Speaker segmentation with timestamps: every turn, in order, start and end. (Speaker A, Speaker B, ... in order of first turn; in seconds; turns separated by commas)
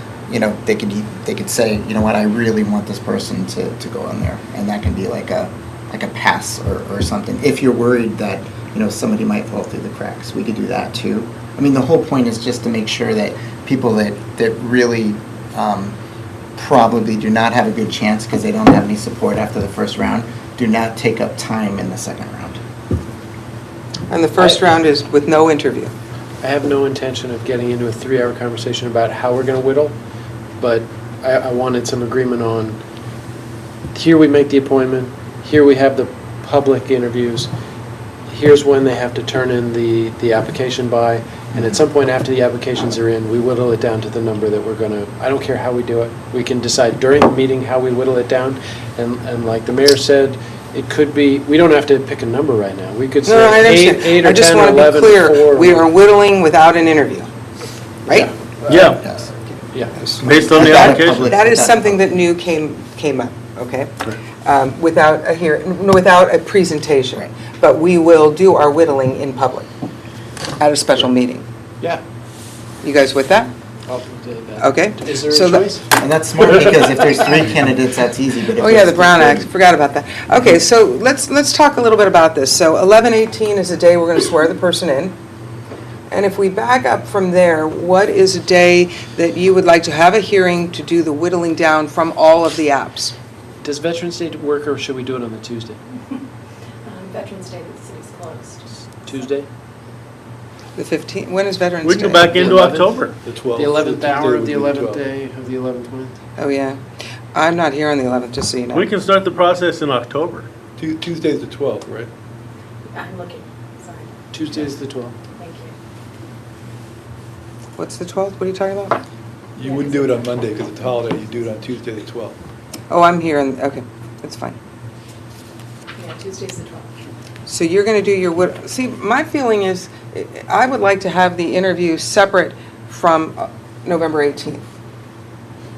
Speaker A: 0.3-16.0, Speaker A: 16.6-22.6, Speaker B: 24.1-25.9, Speaker C: 24.4-24.7, Speaker C: 26.4-30.0, Speaker C: 30.6-32.8, Speaker C: 33.9-37.5, Speaker C: 38.3-55.9, Speaker B: 53.3-57.3, Speaker B: 58.1-58.3, Speaker C: 58.1-59.0, Speaker D: 58.7-59.0, Speaker A: 58.8-59.3, Speaker B: 59.4-69.7, Speaker C: 59.7-60.0, Speaker D: 60.2-61.3, Speaker A: 60.5-62.1, Speaker B: 70.6-71.5, Speaker B: 72.8-73.5, Speaker C: 73.9-75.8, Speaker B: 74.6-75.7, Speaker A: 76.0-79.5, Speaker B: 78.6-85.2, Speaker B: 86.1-93.1, Speaker C: 93.6-95.8, Speaker E: 96.9-99.3, Speaker C: 99.0-99.5, Speaker B: 100.8-102.6, Speaker D: 101.8-103.2, Speaker C: 102.3-106.2, Speaker F: 103.2-105.0, Speaker B: 106.4-106.8, Speaker B: 107.3-108.9, Speaker D: 108.7-110.5, Speaker F: 110.8-112.1, Speaker E: 112.9-114.1, Speaker C: 114.3-115.2, Speaker E: 115.3-115.7, Speaker B: 117.8-119.0, Speaker F: 119.6-122.4, Speaker E: 119.6-120.4, Speaker B: 122.9-124.6, Speaker E: 126.0-126.9, Speaker B: 127.5-134.6